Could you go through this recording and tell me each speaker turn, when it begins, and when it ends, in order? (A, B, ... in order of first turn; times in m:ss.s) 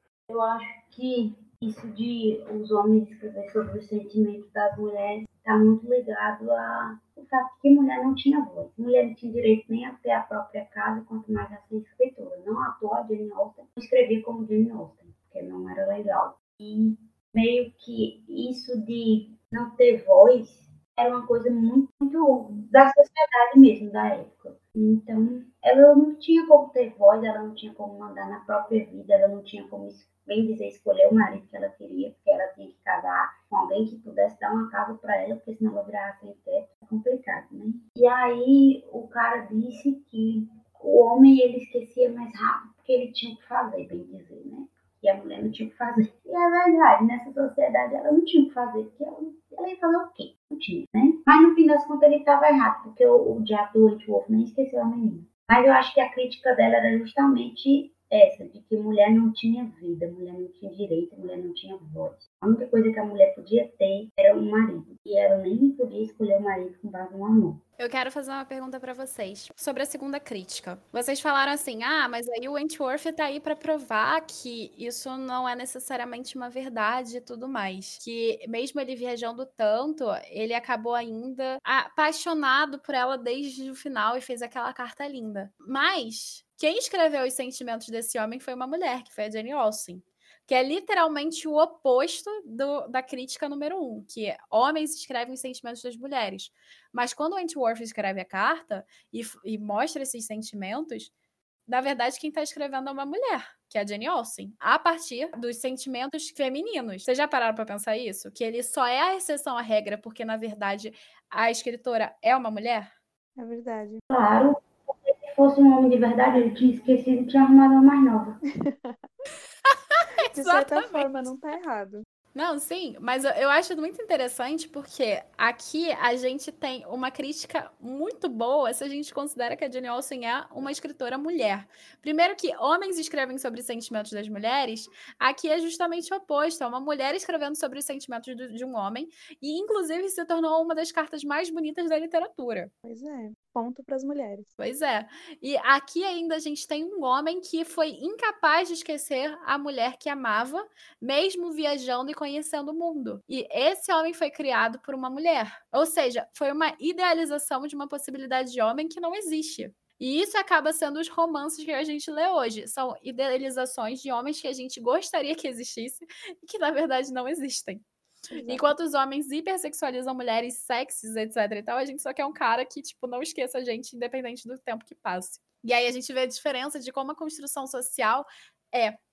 0:00.3-1:07.6 A
1:07.8-1:41.1 B
1:41.7-1:52.9 B
1:53.4-1:54.0 C
1:54.1-1:58.4 A
1:58.5-1:59.2 C
1:59.6-2:01.3 B
2:00.3-2:02.0 C
2:02.3-2:22.7 B
2:22.8-2:24.5 C
2:24.6-2:47.8 B
2:48.3-2:48.7 C
2:48.5-2:59.0 B